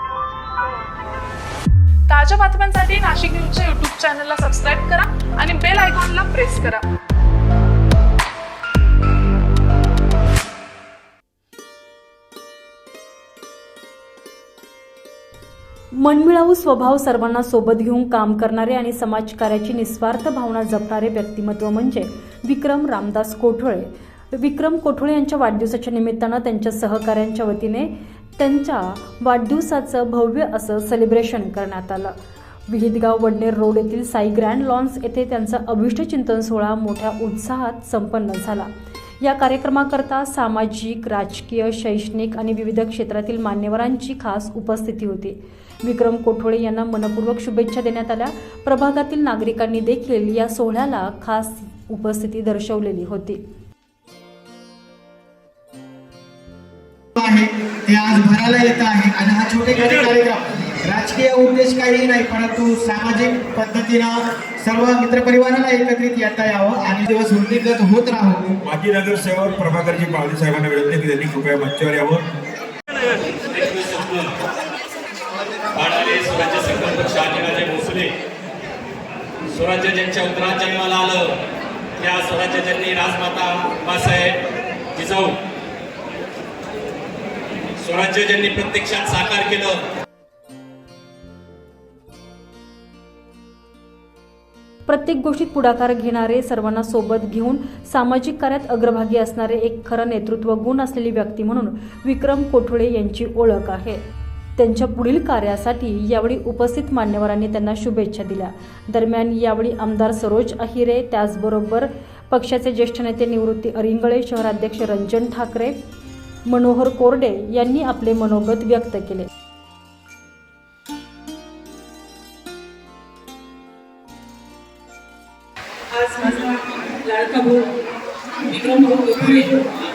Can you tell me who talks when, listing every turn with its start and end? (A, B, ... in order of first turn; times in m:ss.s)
0:02.1-0:06.8 A
0:15.9-0:53.4 B
0:57.1-1:08.6 C
1:08.6-1:12.3 D
1:13.5-1:14.3 E
1:15.7-1:18.1 E
1:19.5-1:21.4 E
1:22.0-1:24.4 E
1:24.9-1:25.4 E
1:27.8-1:29.8 E
1:34.9-1:44.0 B
1:44.6-1:55.7 B
1:56.4-1:59.3 B
2:05.9-2:07.7 F
2:08.5-2:09.5 F